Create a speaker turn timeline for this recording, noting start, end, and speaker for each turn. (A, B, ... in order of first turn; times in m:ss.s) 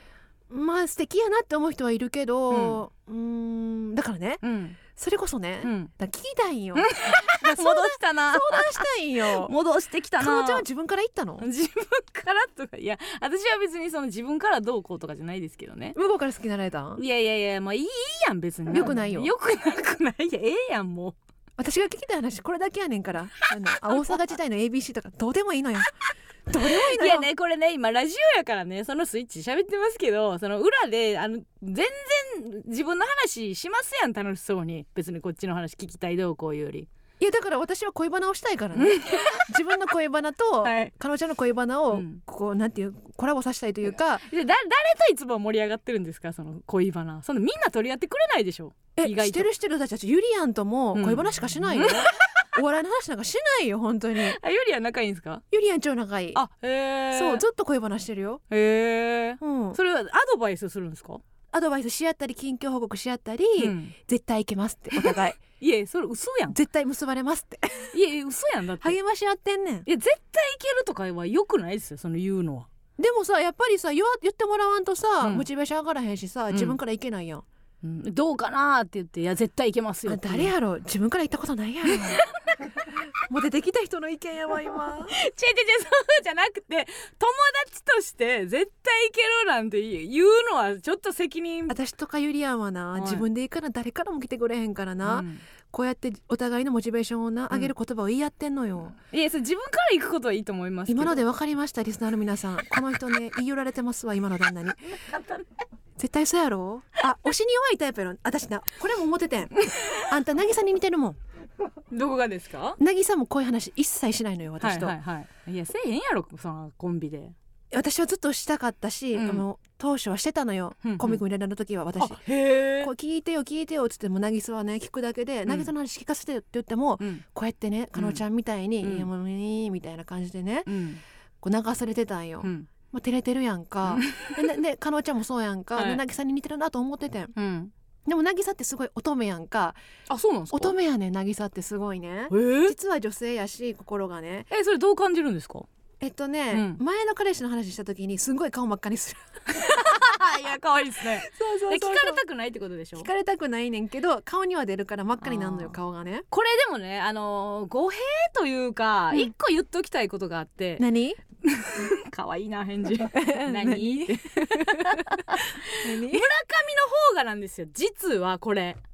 0:00.5-0:04.4 A
0:02.5-0:02.8 B
0:04.4-0:04.8 B
0:05.0-0:09.5 A
0:05.6-0:05.9 B
0:06.8-0:10.6 B
0:10.2-0:11.4 A
0:11.4-0:16.0 B
0:16.0-0:17.0 A
0:17.0-0:21.2 B
0:18.7-0:19.3 A
0:21.6-0:25.9 A
0:26.5-0:27.3 A
0:26.6-0:36.9 B
0:37.2-0:44.3 A
0:38.8-0:39.5 B
0:40.6-0:40.9 B
0:41.9-0:42.2 B
0:44.3-0:49.5 B
0:49.0-0:54.4 A
0:51.0-0:52.5 B
0:54.2-0:55.4 B
0:55.5-0:56.4 A
0:56.3-0:57.4 B
0:57.1-0:58.4 A
0:58.5-1:01.2 B
0:59.4-0:59.8 A
1:01.5-1:05.4 A
1:03.6-1:03.9 B
1:04.9-1:06.6 B
1:06.5-1:08.0 A
1:07.9-1:09.0 B
1:08.8-1:09.9 A
1:09.9-1:12.7 B
1:13.0-1:17.4 A
1:16.5-1:16.8 B
1:17.8-1:20.5 B
1:20.1-1:22.2 A
1:21.9-1:22.2 B
1:23.2-1:25.2 A
1:25.1-1:31.8 B
1:31.7-1:39.0 A
1:33.0-1:33.3 B
1:35.0-1:35.4 B
1:39.1-1:41.2 B
1:40.9-1:44.9 A
1:45.1-1:45.4 B
1:46.0-1:51.2 A
1:49.7-1:50.0 B
1:51.9-1:52.8 B
1:52.8-1:55.0 A
1:54.6-1:57.4 B
1:57.7-2:02.2 A
1:59.2-1:59.4 B
2:00.8-2:01.2 B
2:02.0-2:02.9 B
2:02.8-2:10.8 A
2:08.0-2:08.2 B
2:08.8-2:09.1 B
2:10.7-2:11.0 B
2:11.4-2:17.3 A
2:12.4-2:12.7 B
2:13.9-2:14.5 B
2:15.8-2:16.0 B
2:17.4-2:17.7 B
2:18.1-2:19.8 A
2:20.1-2:20.8 B
2:20.5-2:24.5 A
2:22.3-2:22.8 B
2:24.5-2:25.7 B
2:26.0-2:30.2 A
2:26.5-2:26.8 B
2:29.5-2:33.1 B
2:31.2-2:32.2 A
2:33.0-2:36.3 A
2:35.2-2:35.8 B
2:36.3-2:40.8 B
2:40.8-2:41.2 A
2:41.4-2:48.8 B
2:43.1-2:46.3 A